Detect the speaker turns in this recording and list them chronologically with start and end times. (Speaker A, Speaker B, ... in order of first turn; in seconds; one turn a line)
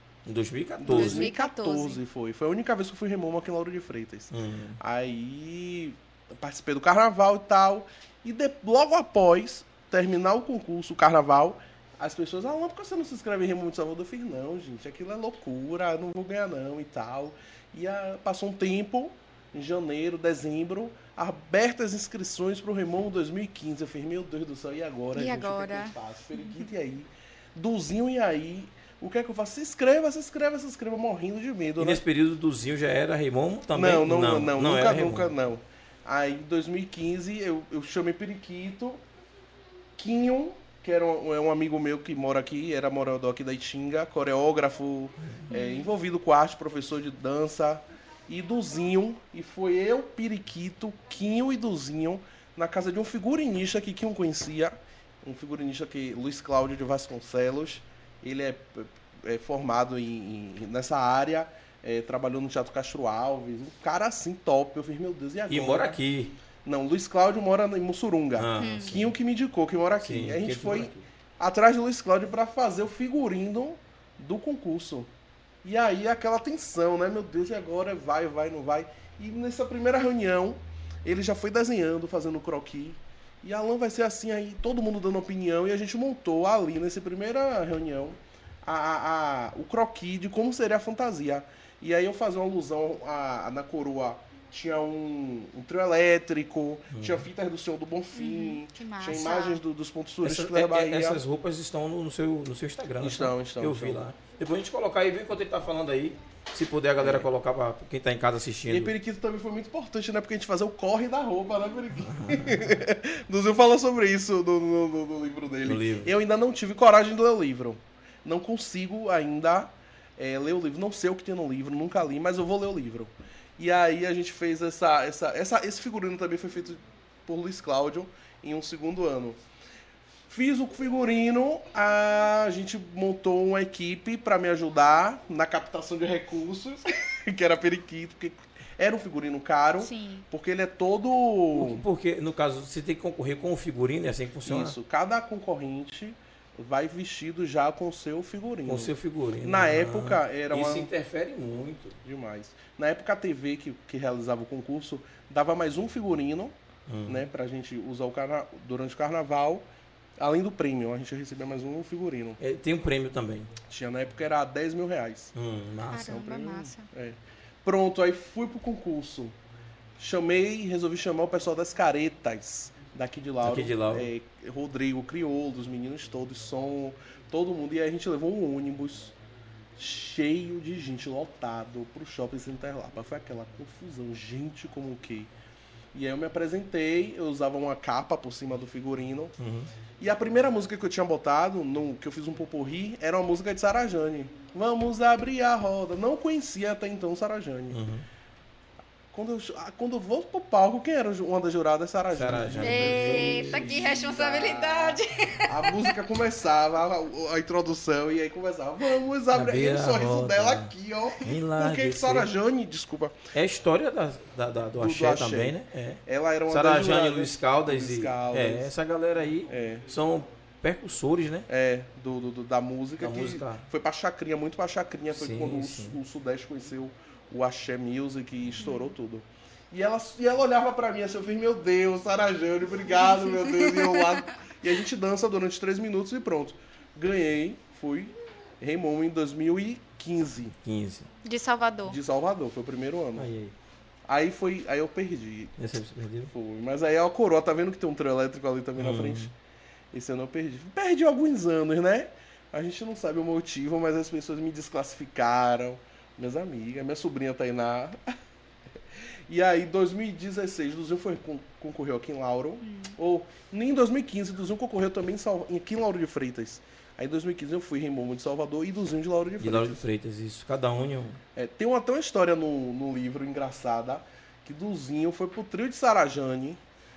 Speaker A: 0.3-1.3
Speaker B: 0.8-32.0
Speaker C: 0.9-2.0
Speaker A: 4.3-4.8
Speaker C: 25.1-26.6
Speaker A: 31.8-35.3
Speaker B: 33.7-39.0
Speaker B: 40.0-66.0
Speaker C: 45.5-45.9
Speaker A: 65.5-66.3
Speaker B: 66.7-75.1
Speaker A: 68.4-69.1
Speaker C: 68.6-69.1
Speaker A: 70.0-71.0
Speaker B: 75.6-101.2
Speaker A: 96.9-97.3
Speaker C: 98.2-99.6
Speaker A: 100.2-108.9
Speaker B: 103.0-104.0
Speaker B: 107.0-107.3
Speaker B: 108.7-129.4
Speaker A: 112.0-112.6
Speaker A: 115.7-116.1
Speaker B: 130.3-141.8
Speaker C: 139.8-140.3
Speaker A: 141.5-144.8
Speaker B: 144.4-150.9
Speaker A: 148.7-152.0
Speaker B: 152.0-156.6
Speaker A: 156.9-157.2
Speaker B: 157.1-159.7
Speaker B: 160.2-162.4
Speaker A: 162.4-163.5
Speaker B: 163.7-165.3
Speaker A: 165.3-166.4
Speaker C: 165.9-166.9
Speaker B: 166.2-169.4
Speaker B: 170.0-179.1
Speaker A: 173.4-174.1
Speaker B: 179.8-185.3
Speaker B: 185.9-189.3
Speaker A: 189.4-189.7
Speaker B: 190.0-197.8
Speaker A: 197.7-198.1
Speaker B: 199.1-213.2
Speaker A: 202.1-203.8
Speaker C: 202.6-205.8
Speaker A: 209.3-212.3
Speaker A: 213.3-221.5
Speaker B: 214.8-218.7
Speaker B: 219.5-219.9
Speaker B: 221.5-240.6
Speaker A: 223.0-223.7
Speaker A: 225.1-226.0
Speaker A: 240.7-241.1
Speaker C: 241.2-242.0
Speaker B: 241.9-243.3
Speaker A: 243.2-243.5
Speaker B: 244.1-245.6
Speaker A: 245.6-246.3
Speaker B: 246.3-249.3
Speaker A: 248.8-249.3
Speaker B: 249.9-258.2
Speaker B: 259.3-269.8
Speaker C: 262.6-262.9
Speaker A: 269.4-271.2
Speaker B: 271.4-276.6